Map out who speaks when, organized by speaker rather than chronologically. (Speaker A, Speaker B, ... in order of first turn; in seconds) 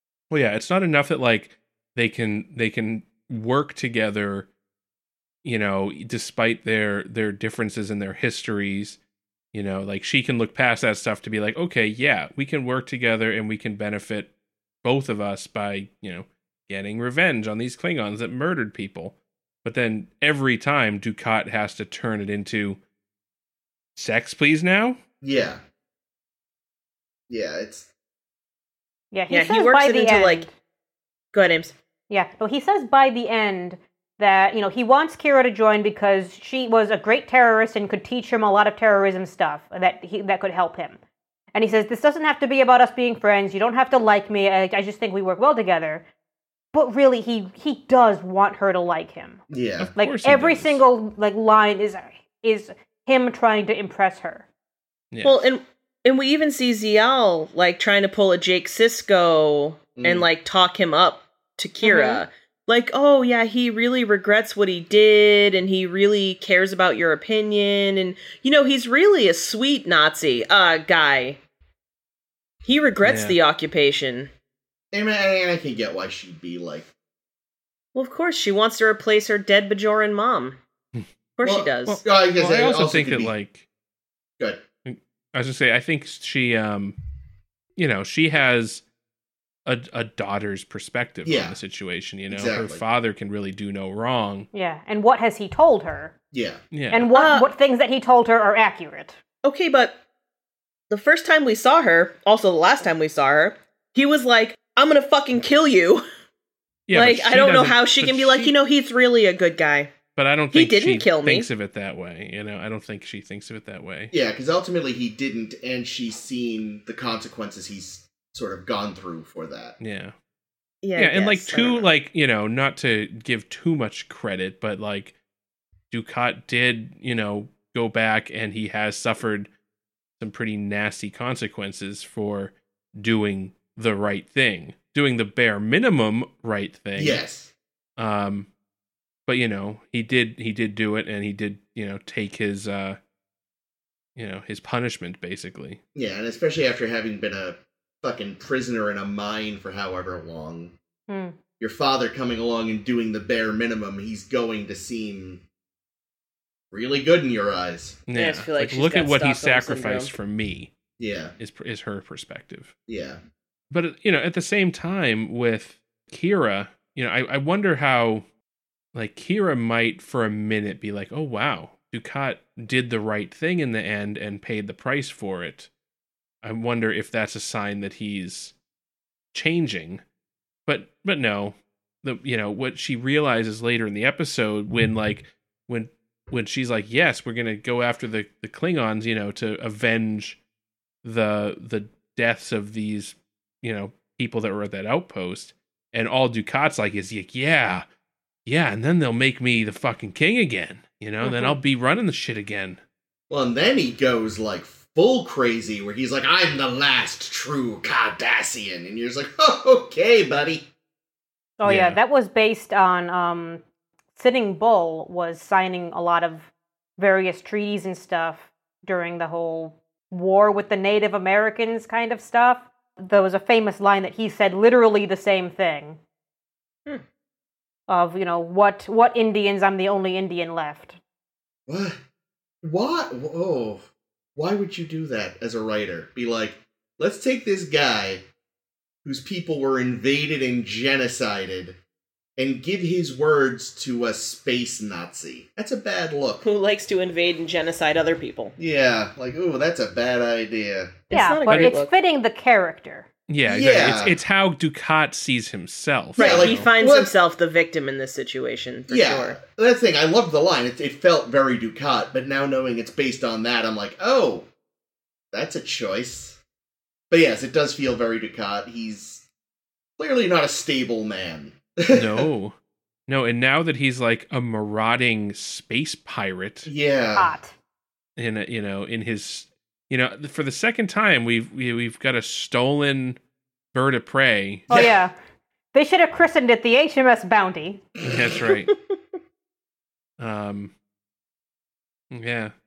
Speaker A: 0.3-4.5, 5.4-9.0, 9.5-14.3, 14.8-22.8, 23.9-25.0, 49.8-50.8, 55.1-55.4, 73.0-73.4, 81.9-83.6, 84.8-87.0, 87.8-88.8, 89.7-94.5, 96.7-97.1, 106.9-108.5, 110.2-114.1, 119.8-120.1, 121.0-125.1, 125.9-129.5, 130.2-137.2, 138.0-138.5, 139.3-143.0, 144.2-145.8, 158.1-160.7, 161.4-162.7, 163.7-168.2, 168.9-175.7, 176.4-178.5, 179.3-180.0, 180.7-190.4, 191.0-197.8, 198.4-202.8, 211.6-212.0, 251.5-251.7, 253.3-256.7, 271.9-272.5, 273.1-276.7, 278.2-283.2, 283.7-284.7, 288.0-288.7, 290.2-290.7, 292.1-292.5
Speaker B: 25.2-25.6, 27.3-27.9, 49.5-49.9, 60.0-60.2, 74.9-76.9, 81.4-83.3, 91.2-91.6, 92.3-92.8, 96.3-96.6, 114.1-119.8, 136.9-137.5, 145.9-150.7, 151.6-155.4, 156.7-158.0, 161.0-161.3, 162.9-163.2, 203.3-210.7, 231.7-232.0, 232.6-233.8, 234.3-238.2, 239.0-241.8, 242.4-246.4, 248.6-251.0, 253.4-254.2, 256.2-257.1, 258.9-264.5, 265.3-266.4, 267.1-269.2, 270.0-272.3, 276.6-277.3, 284.7-285.0, 288.1-288.4
Speaker C: 29.1-30.5, 32.1-41.0, 41.5-46.0, 46.7-49.4, 50.0-54.5, 61.8-62.2, 94.5-96.1, 96.9-99.2, 151.1-151.3, 201.2-201.6, 211.6-213.6, 214.2-226.0, 227.9-231.0, 251.1-253.1, 277.1-277.5, 284.7-285.1, 285.7-287.9
Speaker D: 29.3-30.5, 31.3-31.7, 55.2-71.4, 72.6-74.3, 77.9-80.6, 81.4-82.0, 97.1-97.5, 99.4-100.0, 100.9-106.0, 106.9-109.9, 110.5-111.5, 120.8-121.9, 158.1-160.1, 246.4-248.5, 251.1-251.9, 256.1-259.4